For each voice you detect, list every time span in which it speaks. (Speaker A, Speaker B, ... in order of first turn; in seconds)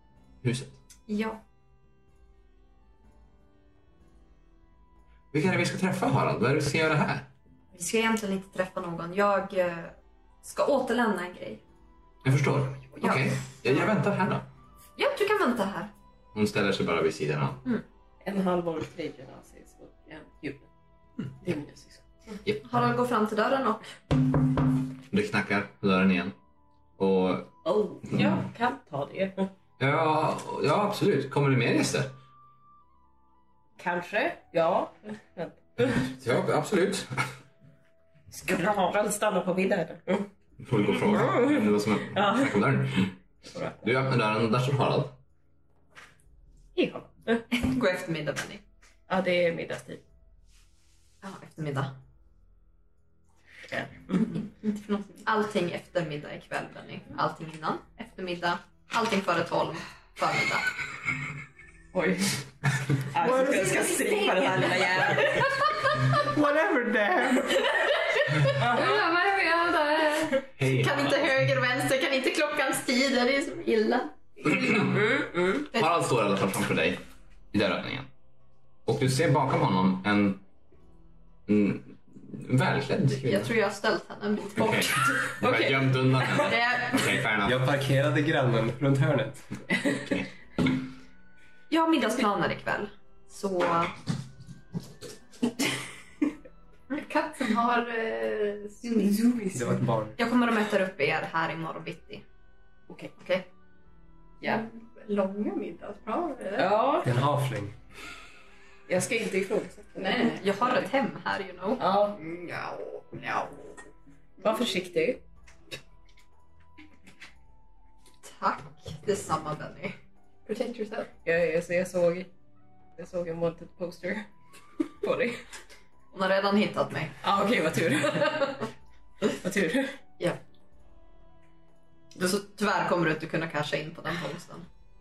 Speaker A: 0.4-0.8, 5.3-7.3, 12.2-14.4, 16.3-17.6, 25.1-26.3, 27.0-27.5, 28.1-28.3, 29.8-32.1, 35.8-37.1, 40.6-43.1, 43.8-45.1, 70.5-71.2, 74.4-75.0, 75.7-77.0, 77.5-78.1, 78.8-80.4, 81.5-83.5, 84.5-87.6, 89.8-90.3
Speaker B: 1.1-1.4, 7.7-11.6, 13.0-13.8, 15.0-15.9, 22.6-23.9, 47.5-48.6, 51.2-52.0, 55.2-60.7, 64.0-64.3, 68.7-74.7, 83.1-84.9, 86.4-87.0, 91.7-94.0, 100.2-102.2, 103.2-103.5, 110.2-111.8, 118.2-119.9, 126.1-127.1, 132.2-134.7
Speaker C: 18.2-20.7, 21.4-22.1, 27.6-29.5, 33.8-35.9, 38.3-40.3, 40.9-42.5, 43.5-43.8, 46.7-47.5, 49.1-50.0, 53.7-54.2, 61.9-62.4, 63.0-65.5, 68.6-69.0, 74.7-75.5, 85.4-86.4, 98.8-99.8, 106.6-107.1, 108.9-110.3, 111.8-112.2, 114.4-115.2, 121.2-122.3, 123.0-124.3, 124.8-125.4, 127.2-128.7, 129.2-130.0
Speaker D: 54.2-55.2, 63.2-65.5, 68.7-69.1, 96.9-99.2, 104.4-106.7, 110.0-110.8, 112.1-113.7, 120.5-121.1
Speaker E: 66.2-67.6, 87.4-89.5, 99.5-100.2, 107.0-107.7